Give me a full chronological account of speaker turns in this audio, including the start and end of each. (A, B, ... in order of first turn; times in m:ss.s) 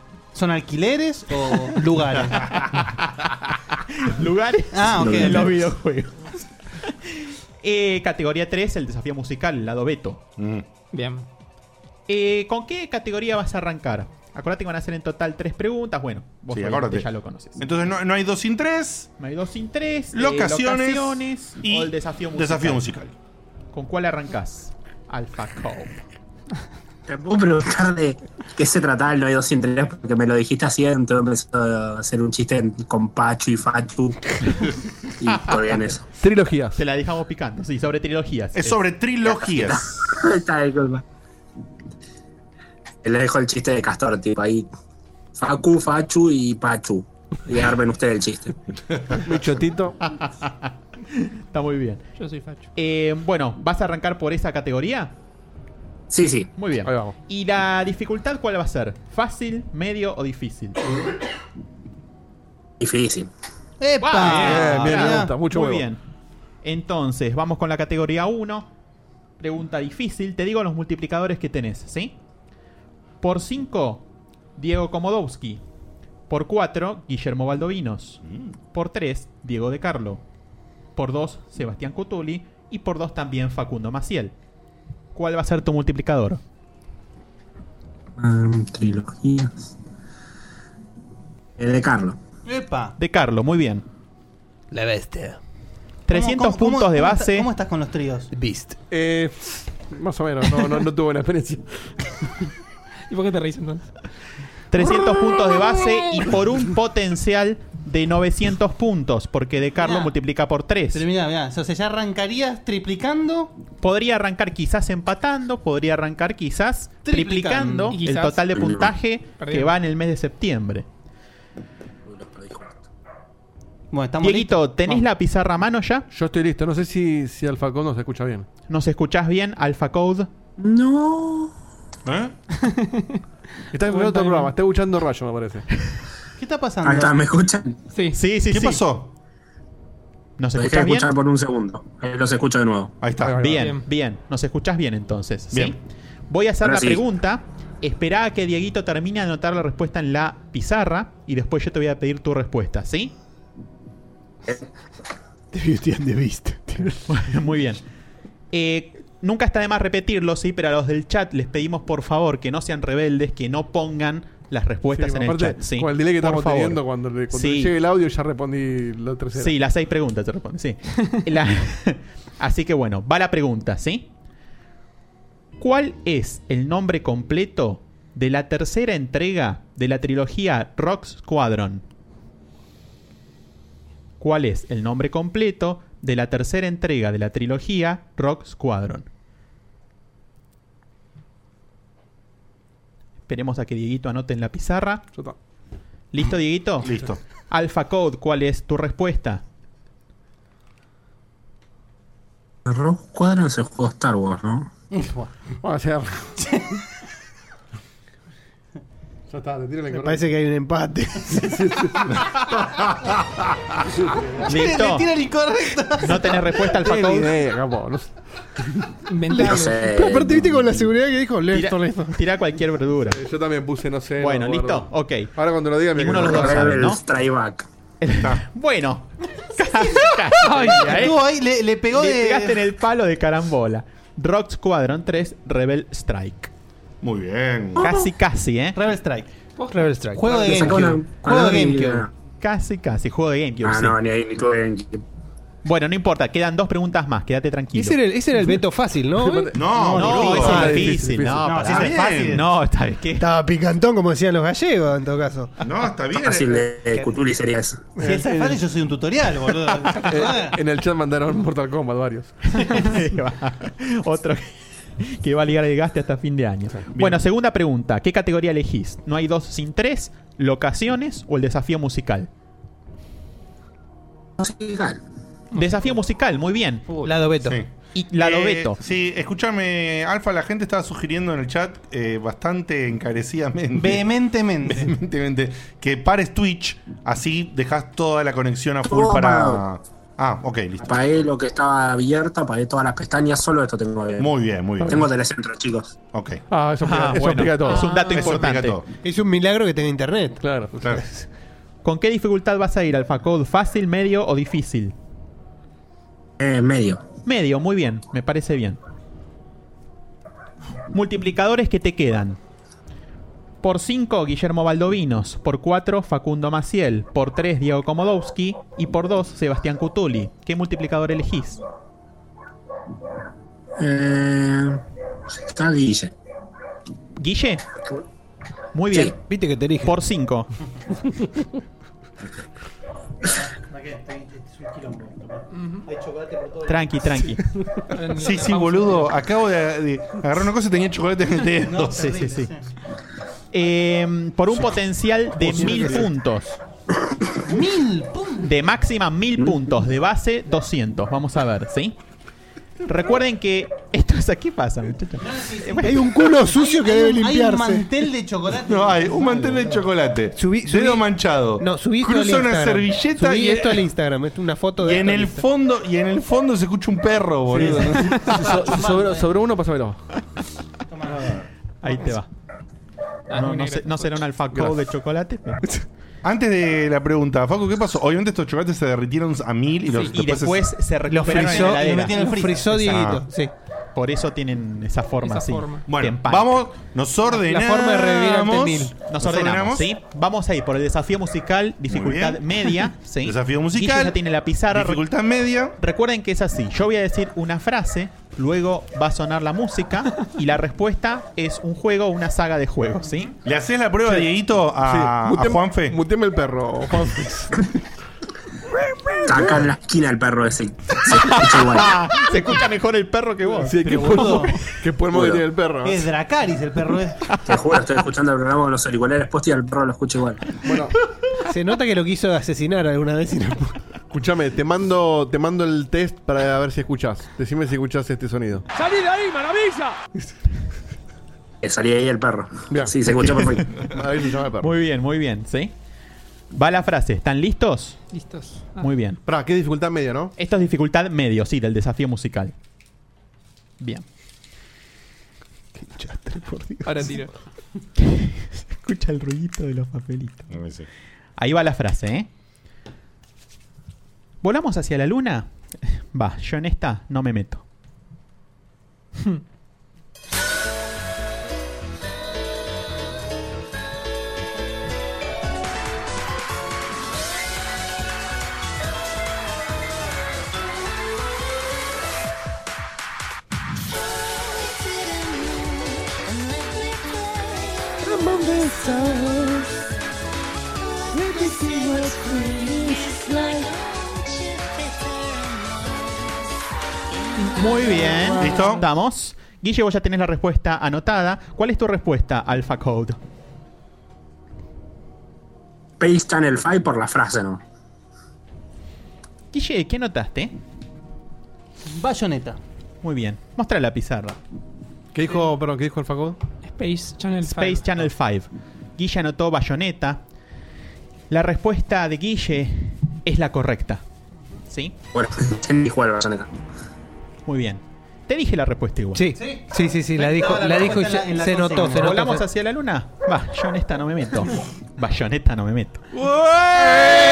0:00.3-0:02.5 A
0:02.4-0:06.2 B
0:04.7-0:05.5 A
0:05.0-0:05.5 C
0:06.9-0:10.2 B
0:10.4-0:10.6 D
0:10.9-0:11.2 E
0:12.1-0:17.6 B
0:16.5-0:17.1 D
0:17.6-0:19.1 D
0:19.2-0:22.8 B
0:20.1-0:23.1 D
0:23.7-0:26.0 B
0:27.1-0:34.2 C
0:35.2-0:36.0 C
0:36.2-0:36.8 F
0:36.8-0:38.8 B
0:38.5-0:39.8 D
0:39.2-0:41.0 C
0:43.0-0:44.7 C
0:45.4-0:48.5 C
0:49.2-0:50.0 F
0:50.0-0:52.0 B
0:52.2-0:52.6 E
0:52.8-0:55.1 B
0:56.1-0:56.5 C
0:56.6-1:00.8 B
0:56.8-0:57.1 F
1:02.8-1:03.3 C
1:03.8-1:05.3 A
1:04.0-1:06.0 B
1:04.2-1:05.8 F
1:06.6-1:08.7 B
1:09.4-1:12.2 B
1:13.2-1:14.0 B
1:14.6-1:15.6 B
1:16.3-1:18.2 B
1:18.2-1:18.5 D
1:18.7-1:20.2 B
1:21.0-1:24.3 B
1:25.1-1:26.4 B
1:28.2-1:29.7 C
1:31.6-1:32.2 C
1:32.4-1:32.9 A
1:33.0-1:33.8 B
1:34.7-1:35.4 G
1:36.1-1:37.5 B
1:36.1-1:38.3 A
1:38.3-1:38.8 G
1:38.9-1:41.6 F
1:43.1-1:43.8 E
1:44.7-1:51.0 B
1:49.8-1:50.1 A
1:50.9-1:53.5 A
1:53.8-2:00.8 B
1:57.1-1:57.9 A
1:57.9-1:58.4 E
1:58.5-1:58.9 C
1:59.4-1:59.7 E
2:02.1-2:02.8 C
2:03.9-2:05.0 A
2:04.2-2:06.0 B
2:06.1-2:08.4 F
2:08.7-2:10.3 B
2:10.6-2:11.5 C
2:12.0-2:12.3 D
2:12.7-2:13.0 E
2:13.7-2:15.6 F
2:13.9-2:14.5 E
2:16.4-2:17.2 A
2:16.8-2:17.8 C
2:18.1-2:18.8 B
2:18.5-2:19.1 D
2:20.4-2:21.1 B
2:20.5-2:23.0 C
2:23.0-2:23.4 D
2:23.2-2:23.6 F
2:23.4-2:25.8 B
2:26.3-2:33.1 B
2:26.6-2:27.0 C
2:35.5-2:37.0 G
2:37.1-2:37.8 B
2:38.5-2:47.7 B
2:44.9-2:49.5 F
2:49.4-2:54.1 B
2:55.6-3:01.8 B
3:04.2-3:09.1 B
3:13.3-3:15.1 B
3:16.1-3:16.9 B
3:16.8-3:17.2 D
3:17.5-3:19.4 B
3:22.6-3:24.7 C
3:24.9-3:25.3 A
3:25.6-3:26.3 F
3:26.4-3:26.8 A
3:29.3-3:30.2 F
3:29.9-3:31.6 G
3:31.4-3:32.1 F
3:34.4-3:36.4 A
3:34.5-3:35.1 B
3:36.0-3:37.3 B
3:36.8-3:38.6 F
3:39.1-3:39.9 E
3:39.3-3:42.2 G
3:39.3-3:40.6 C
3:41.5-3:43.2 B
3:43.1-3:46.8 F
3:44.2-3:45.3 B
3:45.9-3:47.0 B
3:46.2-3:47.7 C
3:48.0-3:51.2 B
3:50.4-3:51.0 E
3:50.8-3:52.6 A
3:51.9-3:56.5 B
3:57.0-3:57.8 D
3:57.8-3:58.8 B
3:58.7-3:59.3 A
3:59.7-4:02.0 G
4:00.1-4:02.0 A
4:00.4-4:02.1 C
4:02.4-4:04.0 B
4:03.6-4:05.0 C
4:05.6-4:08.0 B
4:07.7-4:09.6 G
4:09.2-4:09.5 F
4:09.5-4:10.7 D
4:09.7-4:10.8 A
4:10.0-4:13.2 B
4:10.3-4:11.5 F
4:10.4-4:10.8 G
4:11.4-4:12.4 A
4:11.7-4:12.4 D
4:13.2-4:15.5 G
4:15.6-4:16.7 D
4:16.1-4:17.8 C
4:18.0-4:18.6 F
4:18.0-4:20.5 A
4:20.1-4:22.6 F
4:22.7-4:32.3 B
4:26.9-4:27.2 D
4:34.4-4:35.0 C
4:35.5-4:36.9 B
4:37.0-4:37.6 G
4:37.4-4:44.0 D
4:37.9-4:38.8 B
4:43.8-4:44.9 A
4:44.6-4:50.9 D
4:48.9-4:49.6 C
4:50.8-4:56.0 C
4:54.2-4:55.0 D
4:56.1-4:56.4 D
4:56.5-4:57.9 F
4:56.8-4:58.8 B
4:58.1-4:58.8 D
4:59.0-5:01.3 G
5:00.4-5:00.8 F
5:01.8-5:04.9 B
5:06.4-5:07.0 C
5:07.2-5:08.8 B
5:10.9-5:12.4 B
5:13.6-5:21.6 B
5:23.8-5:24.8 C
5:25.3-5:26.1 C
5:27.2-5:27.6 B
5:28.7-5:29.2 B
5:29.2-5:29.9 G
5:29.8-5:30.5 B
5:33.7-5:36.7 A
5:35.6-5:35.9 E
5:36.6-5:37.4 B
5:37.9-5:39.1 E
5:38.2-5:42.1 D
5:41.6-5:42.7 A
5:41.9-5:42.5 B
5:43.5-5:46.6 B
5:45.5-5:46.0 F
5:47.5-5:48.5 A
5:48.4-5:52.0 B
5:52.8-5:56.1 B
5:55.2-5:59.8 A
5:55.8-5:57.9 G
5:58.7-6:03.8 D
6:00.4-6:01.1 G
6:01.6-6:05.4 G
6:04.8-6:08.2 D
6:07.5-6:10.0 F
6:08.5-6:09.2 A
6:10.9-6:11.3 A
6:11.8-6:12.3 B
6:13.3-6:14.2 E
6:13.3-6:15.6 B
6:14.5-6:14.8 F
6:16.2-6:20.6 D
6:19.9-6:23.2 B
6:21.1-6:23.5 G
6:21.2-6:22.7 A
6:22.9-6:23.2 D
6:23.9-6:26.6 B
6:25.2-6:25.8 E
6:25.9-6:29.9 D
6:27.3-6:28.9 G
6:29.0-6:35.0 B
6:31.9-6:32.4 D
6:33.2-6:34.2 D
6:34.7-6:35.7 D
6:35.8-6:43.3 B
6:43.4-6:46.0 D
6:44.8-6:47.6 F
6:49.2-6:52.0 C
6:51.1-6:54.6 B
6:53.6-6:56.0 F
6:53.8-6:54.5 A
6:55.1-6:55.4 C
6:55.8-6:57.2 A
6:57.4-7:00.4 C
7:00.6-7:00.9 F
7:01.4-7:03.8 G
7:04.1-7:08.6 F
7:11.6-7:13.6 C
7:12.7-7:14.7 F
7:14.6-7:15.7 B
7:16.5-7:18.0 B
7:18.1-7:18.9 E
7:18.8-7:19.2 B
7:19.2-7:20.3 F
7:20.4-7:22.5 B
7:25.7-7:27.2 G
7:26.8-7:27.3 E
7:28.0-7:30.4 B
7:30.5-7:30.8 D
7:31.4-7:32.3 B
7:34.4-7:37.6 B
7:58.0-7:59.7 G
8:01.1-8:04.2 G
8:07.5-8:13.2 B
8:08.4-8:08.8 D
8:16.0-8:17.6 C
8:19.5-8:20.5 B
8:21.9-8:22.6 A
8:23.0-8:24.4 B
8:25.1-8:26.4 F
8:26.6-8:28.1 E
8:27.4-8:30.2 B
8:31.3-8:34.0 B
8:34.7-8:34.9 B
8:35.1-8:36.5 C
8:37.4-8:39.3 B
8:39.1-8:42.4 G
8:39.4-8:42.2 A
8:41.9-8:46.0 B